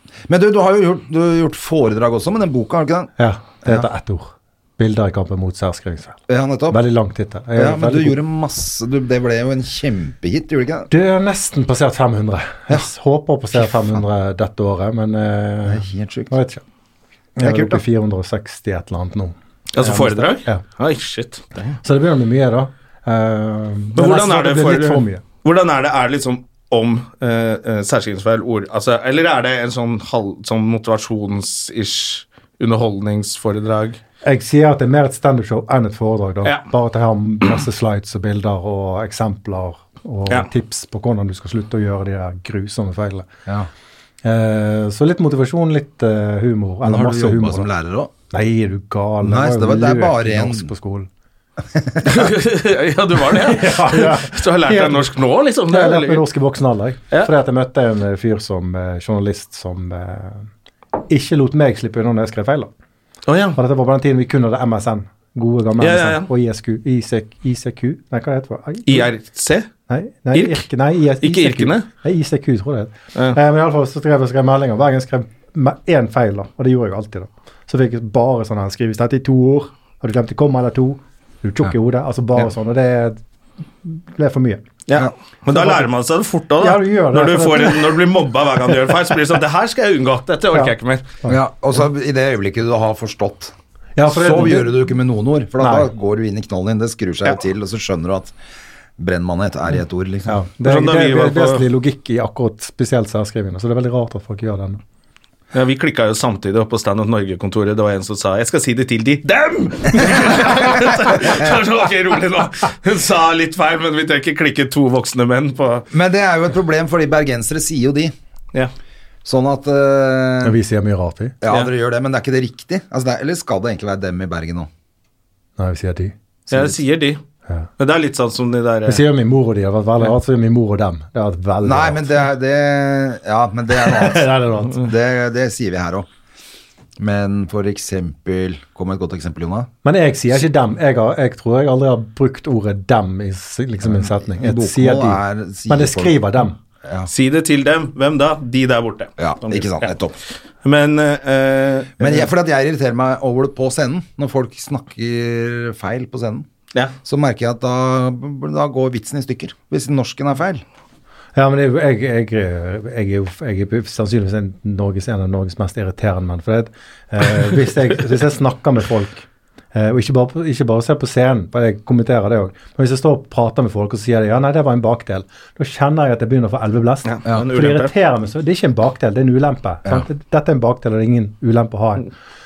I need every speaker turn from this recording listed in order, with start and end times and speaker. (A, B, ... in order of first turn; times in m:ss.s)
0:00.3-0:03.1 A
0:03.2-0:06.2 B
0:06.3-0:06.8 A
0:06.7-0:08.2 B
0:07.5-0:10.9 A
0:10.9-0:16.6 B
0:15.6-0:16.3 A
0:17.4-0:20.6 B
0:17.4-0:17.8 A
0:19.7-0:21.8 C
0:21.8-0:25.2 B
0:24.0-0:34.0 C
0:34.2-0:43.3 B
0:44.2-0:47.7 B
0:46.8-0:48.1 A
0:48.3-0:51.1 B
0:49.2-0:50.7 A
0:51.7-0:52.2 A
0:52.0-0:56.2 C
0:53.3-0:55.1 B
0:55.7-1:00.5 B
1:01.1-1:02.7 B
1:03.3-1:03.6 C
1:03.6-1:09.1 B
1:05.8-1:06.3 C
1:08.9-1:09.7 C
1:09.9-1:23.2 B
1:10.3-1:10.6 C
1:11.2-1:11.8 C
1:23.8-1:24.6 B
1:24.9-1:31.1 C
1:25.5-1:25.9 B
1:26.6-1:28.0 B
1:31.3-1:33.5 A
1:34.0-1:34.9 B
1:34.0-1:38.3 A
1:35.6-1:35.9 B
1:39.0-1:40.4 A
1:40.3-1:44.8 B
1:40.6-1:41.6 C
1:45.5-1:55.8 C
1:55.9-1:58.1 A
1:59.2-2:00.6 A
2:00.4-2:01.4 B
2:01.4-2:04.7 A
2:05.6-2:06.1 B
2:06.5-2:06.8 A
2:06.5-2:07.2 C
2:07.8-2:09.0 C
2:08.8-2:12.2 B
2:11.6-2:16.1 A
2:13.7-2:14.8 B
2:17.0-2:19.7 A
2:19.8-2:26.6 B
2:23.8-2:26.2 A
2:26.8-2:27.1 A
2:27.1-2:29.9 C
2:29.2-2:30.2 A
2:30.6-2:32.2 C
2:32.0-2:36.5 A
2:37.0-2:40.6 A
2:41.4-3:02.1 B
2:57.0-2:57.9 C